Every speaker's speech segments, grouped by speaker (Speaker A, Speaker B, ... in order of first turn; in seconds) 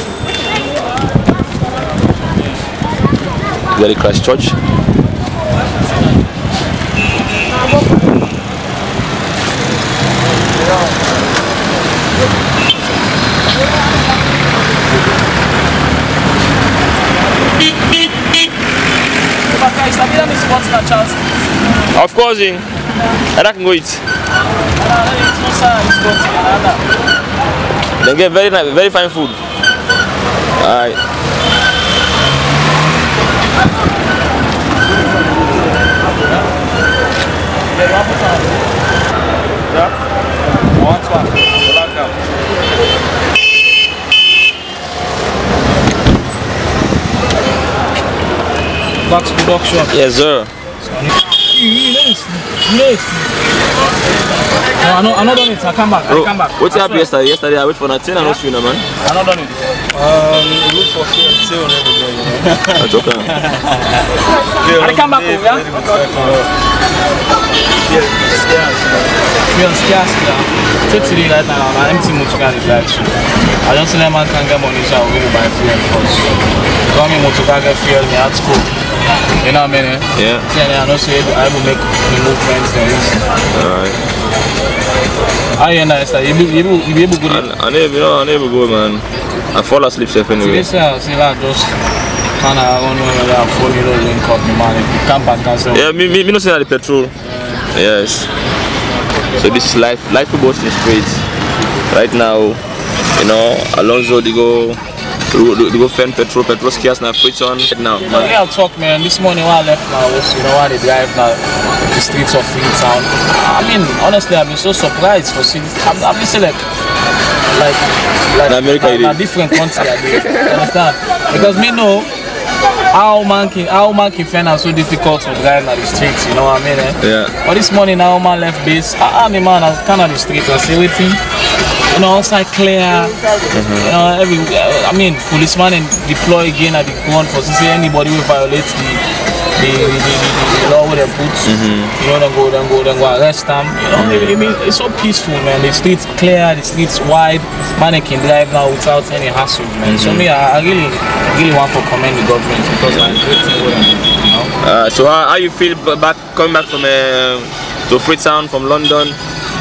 Speaker A: 3.8-4.6, 21.9-22.7, 23.3-24.1, 28.0-29.4, 30.6-31.0, 49.9-50.5, 56.1-58.9, 62.8-63.3, 80.2-80.5, 83.5-84.0, 87.2-90.7, 95.7-97.1, 97.7-98.3, 99.4-101.2, 101.9-102.6, 103.2-108.4, 118.5-120.6, 127.0-127.3, 133.5-133.9, 141.4-141.9, 144.0-144.4, 149.8-150.3, 152.8-153.2, 154.6-159.2
Speaker B: 19.5-21.2, 24.8-26.8, 37.7-38.6, 40.8-41.5, 49.0-50.0, 50.8-53.3, 54.8-57.1, 59.0-59.6, 63.4-64.1, 64.7-66.4, 69.5-76.3, 76.9-78.7, 79.4-83.2, 85.6-87.5, 90.4-91.8, 92.4-95.9, 99.2-99.5, 108.0-116.6, 117.5-122.1, 122.9-131.2, 131.9-133.2, 133.8-139.0, 139.6-154.5
Speaker C: 41.7-42.1, 59.9-62.8, 64.6-66.5, 67.8-69.1